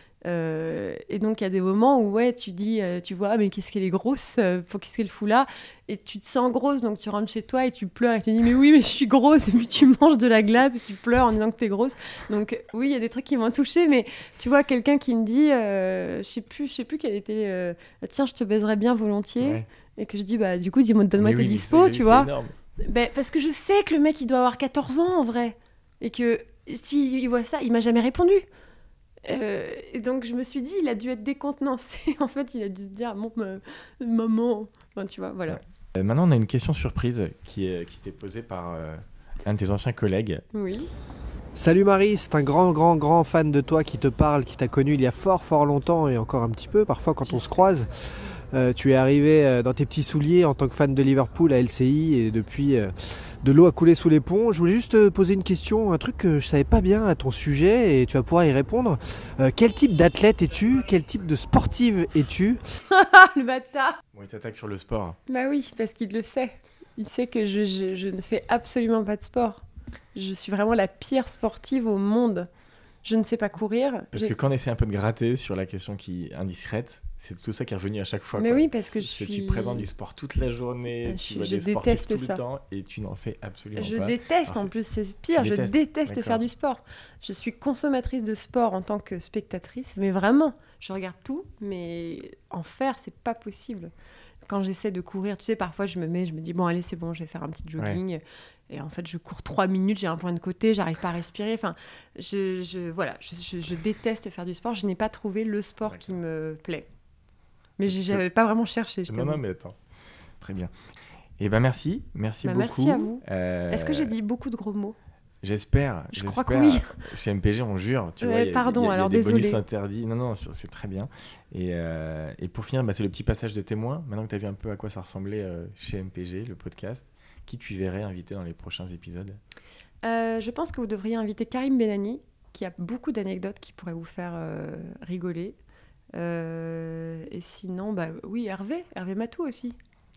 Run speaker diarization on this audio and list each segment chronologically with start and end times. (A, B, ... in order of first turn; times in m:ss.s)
0:00.2-0:28.4 A
0:19.4-0:19.6 B
0:21.2-0:22.5 B
0:29.2-0:35.6 A
0:35.5-0:40.4 B
0:40.5-0:40.9 A
0:41.6-0:47.9 C
0:47.2-0:47.5 A
0:48.5-0:52.9 C
0:53.4-1:02.6 C
1:02.9-1:04.0 A
1:04.1-1:05.2 B
1:05.3-1:09.6 A
1:10.1-1:12.5 A
1:13.0-1:14.4 A
1:14.1-1:24.7 B
1:18.4-1:19.8 A
1:21.1-1:22.4 A
1:23.8-1:33.9 A
1:25.3-1:26.4 B
1:34.4-1:46.9 A
1:47.8-1:49.4 A
1:47.8-1:48.2 B
1:49.1-1:49.8 B
1:50.4-1:50.7 B
1:51.4-1:54.1 B
1:52.4-1:55.0 A
1:55.4-2:09.4 B
1:56.1-1:57.0 A
1:58.2-1:59.6 A
2:10.0-2:15.6 A
2:16.1-2:19.8 A